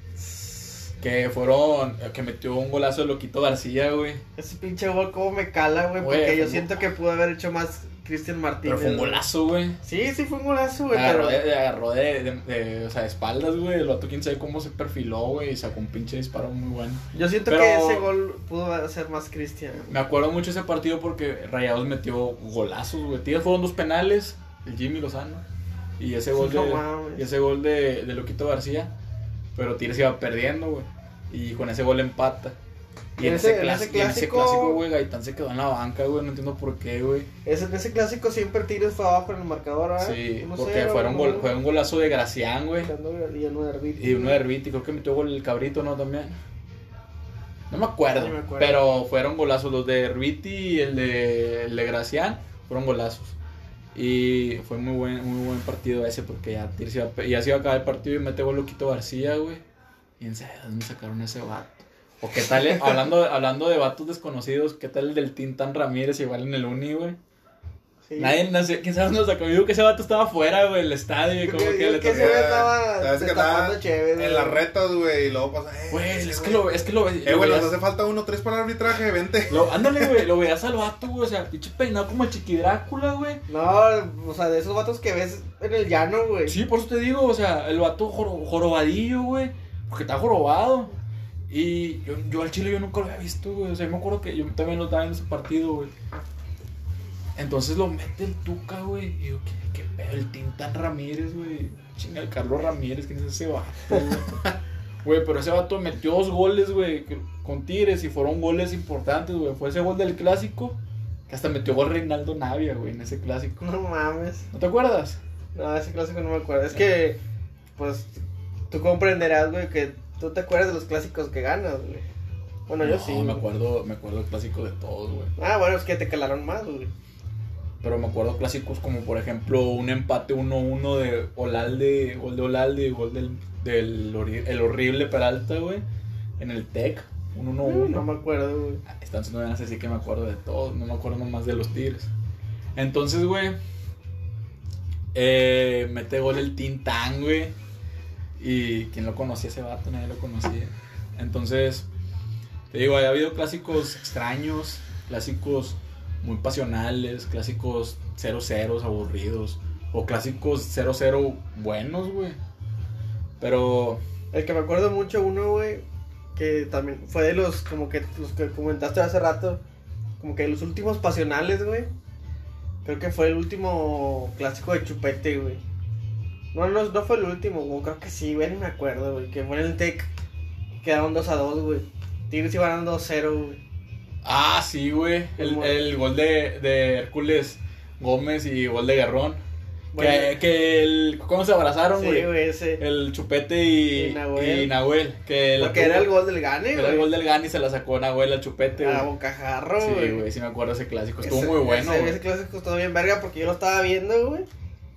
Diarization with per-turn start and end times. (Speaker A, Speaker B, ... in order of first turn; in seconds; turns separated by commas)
Speaker A: 0.2-0.7, Speaker B: 1.0-4.2, Speaker A: 4.3-9.2, Speaker B: 6.0-6.7, Speaker B: 8.6-9.8, Speaker A: 9.8-11.4, Speaker B: 10.9-18.1, Speaker A: 17.1-19.9, Speaker B: 19.9-25.4, Speaker B: 26.0-28.9, Speaker A: 26.3-27.2, Speaker B: 29.5-32.6, Speaker B: 33.2-37.3, Speaker A: 33.2-34.8, Speaker A: 37.4-41.6, Speaker B: 40.0-42.9, Speaker A: 42.8-44.4, Speaker B: 44.0-46.4, Speaker B: 47.7-53.4, Speaker A: 48.1-49.1, Speaker B: 53.9-59.6, Speaker B: 60.2-67.2, Speaker A: 68.1-68.4, Speaker B: 68.2-72.4, Speaker A: 71.4-74.6, Speaker C: 72.1-76.7, Speaker B: 75.9-77.8, Speaker C: 77.2-80.2, Speaker B: 79.5-83.4, Speaker A: 83.5-86.5, Speaker B: 86.5-90.9, Speaker B: 91.5-95.9, Speaker B: 97.3-104.4, Speaker B: 105.0-110.8, Speaker B: 111.3-113.6, Speaker A: 113.6-114.5, Speaker B: 114.5-115.2, Speaker A: 115.5-117.2, Speaker A: 117.8-118.2, Speaker A: 118.7-122.0, Speaker A: 122.7-123.4, Speaker B: 122.8-125.3, Speaker A: 125.4-126.9, Speaker B: 127.8-135.8, Speaker B: 136.4-138.0, Speaker A: 137.6-138.8, Speaker B: 138.9-142.1, Speaker B: 142.8-143.6, Speaker B: 145.1-147.5, Speaker B: 148.4-151.9, Speaker B: 152.7-162.4, Speaker B: 163.4-164.0, Speaker A: 164.3-165.8, Speaker A: 166.3-169.6, Speaker A: 170.2-171.9, Speaker A: 172.8-175.6, Speaker A: 176.5-180.1, Speaker A: 180.8-183.6, Speaker B: 184.2-189.4, Speaker A: 185.4-185.8, Speaker A: 189.9-190.4, Speaker B: 189.9-196.1, Speaker A: 191.9-192.8, Speaker A: 193.9-194.7, Speaker A: 195.6-197.1, Speaker B: 196.7-199.1, Speaker A: 198.8-200.2, Speaker B: 199.8-202.2, Speaker A: 201.2-204.5